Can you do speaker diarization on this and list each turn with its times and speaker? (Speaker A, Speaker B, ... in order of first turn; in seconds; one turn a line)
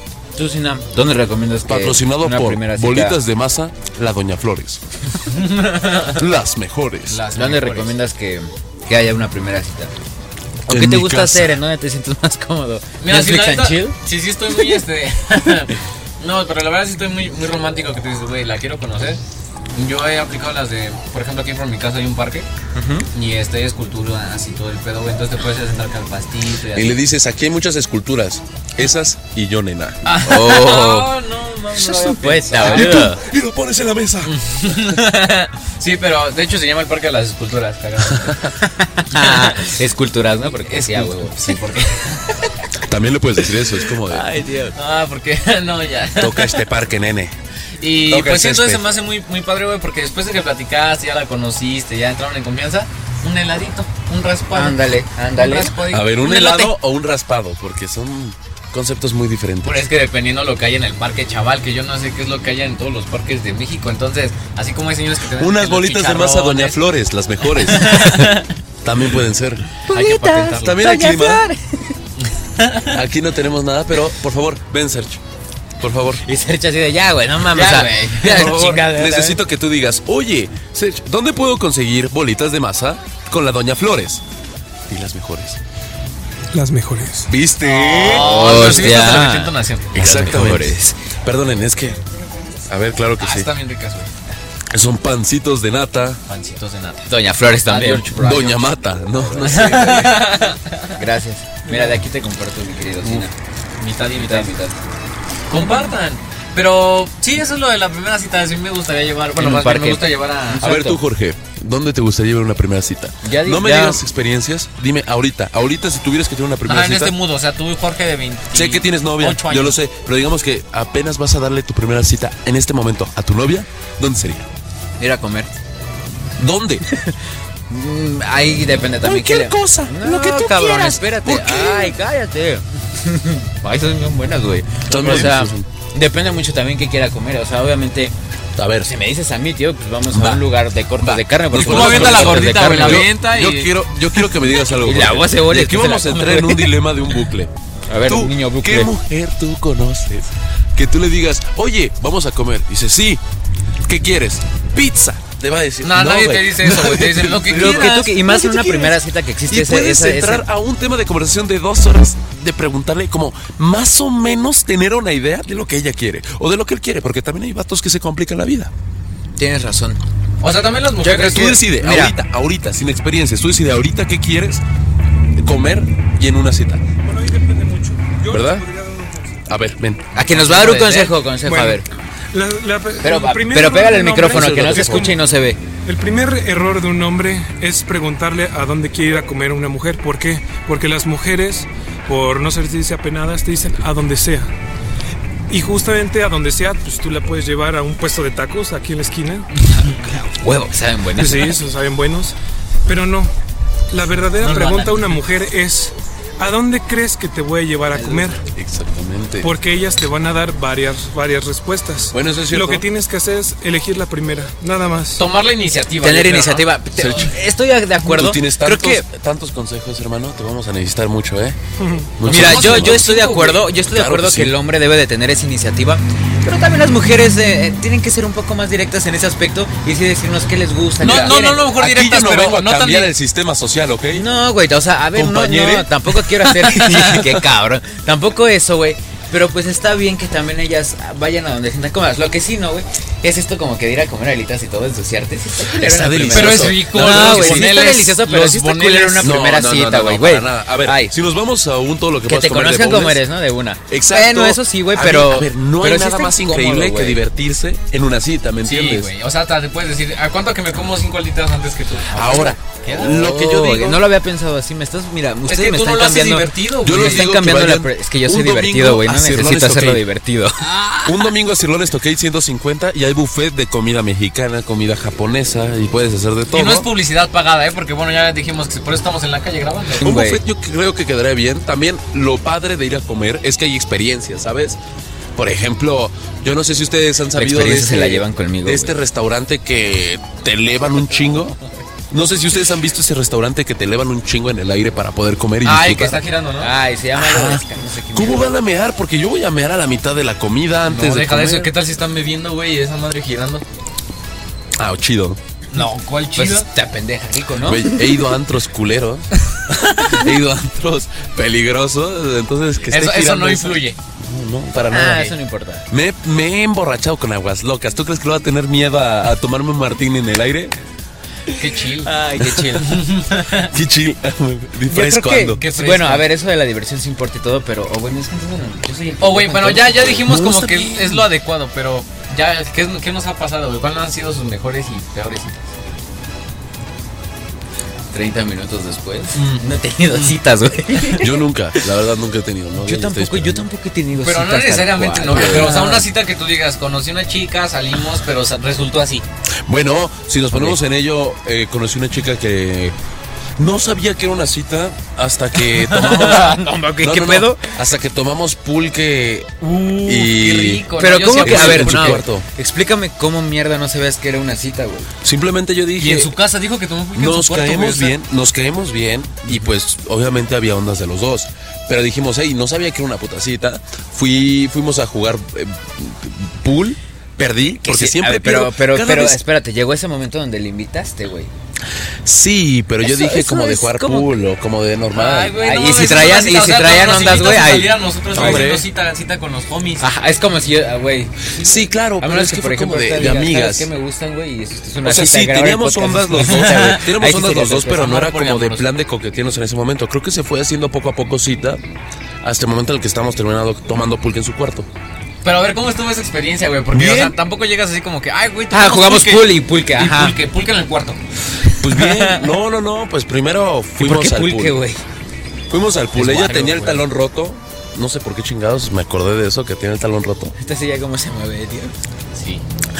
Speaker A: 0.3-3.2
Speaker B: 1.6-4.8
Speaker C: 5.2-6.2
Speaker B: 6.1-7.2
Speaker C: 7.1-7.9
Speaker A: 7.3-9.9
Speaker A: 10.7-13.9
Speaker B: 10.7-11.6
Speaker C: 13.0-19.2
Speaker C: 19.7-22.5
Speaker A: 22.7-23.1
Speaker C: 23.1-27.0
Speaker B: 26.7-30.2
Speaker C: 30.0-33.1
Speaker A: 30.2-31.1
Speaker B: 31.8-35.0
Speaker A: 32.0-33.2
Speaker C: 34.2-38.5
Speaker A: 38.8-41.6
Speaker C: 39.1-39.6
Speaker C: 40.7-42.5
Speaker B: 42.8-44.2
Speaker A: 44.0-44.7
Speaker C: 44.7-46.6
Speaker B: 46.1-47.3
Speaker C: 47.8-56.7
Speaker B: 48.1-48.8
Speaker A: 54.5-55.7
Speaker B: 55.9-59.9
Speaker C: 59.6-66.8
Speaker B: 65.3-69.7
Speaker C: 67.6-68.5
Speaker A: 67.9-68.2
Speaker C: 69.8-70.8
Speaker A: 69.9-72.0
Speaker B: 70.5-71.4
Speaker C: 72.6-72.9
Speaker B: 72.8-75.2
Speaker B: 75.8-76.2
Speaker A: 76.2-79.4
Speaker B: 77.5-84.2
Speaker C: 77.6-78.4
Speaker B: 84.9-85.6
Speaker D: 86.5-87.3
Speaker B: 87.3-89.0
Speaker C: 87.7-89.9
Speaker A: 88.0-91.0
Speaker B: 89.9-92.0
Speaker B: 92.7-93.5
Speaker C: 93.2-94.1
Speaker B: 94.7-96.2
Speaker C: 96.3-97.1
Speaker A: 97.0-98.4
Speaker C: 97.6-98.6
Speaker B: 98.2-100.2
Speaker C: 99.4-101.0
Speaker A: 100.9-103.3
Speaker C: 103.8-104.5
Speaker A: 104.1-104.7
Speaker C: 105.5-110.7
Speaker A: 109.4-111.0
Speaker B: 110.6-117.1
Speaker A: 113.2-114.0
Speaker C: 116.7-119.8
Speaker B: 118.5-124.5
Speaker A: 125.0-125.5
Speaker B: 126.4-126.8
Speaker A: 126.8-127.2
Speaker A: 127.7-138.1
Speaker B: 129.0-131.9
Speaker B: 134.9-135.7
Speaker B: 138.6-138.9
Speaker A: 138.8-143.1
Speaker B: 140.1-140.5
Speaker B: 141.0-147.5
Speaker C: 141.5-143.7
Speaker A: 144.8-146.7
Speaker A: 147.9-148.9
Speaker B: 148.0-153.2
Speaker B: 153.8-168.7
Speaker C: 155.8-158.1
Speaker A: 157.5-160.4
Speaker A: 169.4-170.0
Speaker C: 170.4-171.6
Speaker A: 171.0-172.1
Speaker B: 171.1-174.6
Speaker B: 175.3-176.8
Speaker D: 177.0-179.4
Speaker B: 178.3-178.7
Speaker B: 179.5-180.3
Speaker A: 180.1-181.8
Speaker C: 180.2-181.1
Speaker D: 181.4-185.2
Speaker A: 183.0-185.6
Speaker B: 184.2-185.2
Speaker D: 185.8-194.5
Speaker D: 195.5-199.5
Speaker A: 199.8-201.6
Speaker D: 201.2-202.3
Speaker D: 202.8-203.3
Speaker D: 203.9-208.4
Speaker C: 204.4-205.2
Speaker B: 208.4-209.5
Speaker D: 209.4-215.2
Speaker B: 212.1-212.9
Speaker C: 215.2-216.7
Speaker A: 216.0-219.0
Speaker B: 217.0-217.3
Speaker B: 218.0-221.6
Speaker D: 221.8-222.1
Speaker B: 222.2-224.5
Speaker C: 222.2-223.6
Speaker A: 222.2-231.8
Speaker C: 231.0-233.1
Speaker B: 231.0-234.2
Speaker A: 234.1-251.1
Speaker B: 235.1-236.1
Speaker B: 236.7-237.2
Speaker B: 245.7-247.9
Speaker C: 246.3-249.4
Speaker B: 249.2-253.2
Speaker A: 252.3-257.2
Speaker B: 253.9-259.1
Speaker C: 258.6-263.2
Speaker B: 262.1-264.0
Speaker A: 263.0-270.6
Speaker C: 265.5-267.3
Speaker B: 266.8-270.0
Speaker C: 270.6-271.2
Speaker B: 271.0-276.9
Speaker C: 276.5-280.1
Speaker A: 280.0-280.4
Speaker B: 280.0-284.8
Speaker B: 285.4-291.6
Speaker A: 287.3-288.9
Speaker B: 292.1-296.2
Speaker C: 295.6-296.7
Speaker A: 296.6-298.5
Speaker B: 297.1-301.7
Speaker C: 300.9-303.6
Speaker B: 304.8-305.4
Speaker C: 305.7-306.7
Speaker A: 305.8-308.2
Speaker B: 307.6-315.3
Speaker C: 312.9-314.0
Speaker A: 314.9-315.9
Speaker B: 315.9-320.7
Speaker C: 321.5-322.1
Speaker A: 321.9-323.1
Speaker C: 322.7-323.7
Speaker B: 323.6-325.6
Speaker A: 324.9-330.3
Speaker C: 325.6-326.2
Speaker C: 329.2-335.7
Speaker B: 330.2-331.3
Speaker A: 338.1-341.4
Speaker C: 339.3-340.4
Speaker B: 341.1-343.6
Speaker A: 342.7-346.0
Speaker C: 344.2-349.2
Speaker B: 345.3-345.9
Speaker B: 349.6-352.9
Speaker B: 353.6-362.4
Speaker C: 355.7-356.3
Speaker A: 356.0-357.6
Speaker C: 359.6-362.2
Speaker A: 361.0-365.1
Speaker B: 365.2-366.3
Speaker C: 366.0-368.1
Speaker B: 367.1-379.4
Speaker A: 377.8-381.5
Speaker B: 382.2-385.6
Speaker A: 383.0-384.3
Speaker C: 385.1-390.1
Speaker A: 385.6-388.7
Speaker B: 388.3-388.9
Speaker A: 390.0-398.1
Speaker B: 391.6-393.9
Speaker B: 395.0-401.8
Speaker C: 396.4-397.1
Speaker C: 397.8-398.9
Speaker B: 402.4-404.9
Speaker C: 405.4-411.2
Speaker B: 406.9-407.4
Speaker A: 408.7-410.4
Speaker B: 411.8-414.8
Speaker A: 411.9-412.4
Speaker A: 414.0-415.0
Speaker B: 415.7-420.5
Speaker A: 416.1-417.0
Speaker C: 416.3-416.9
Speaker A: 420.6-421.9
Speaker C: 422.3-422.6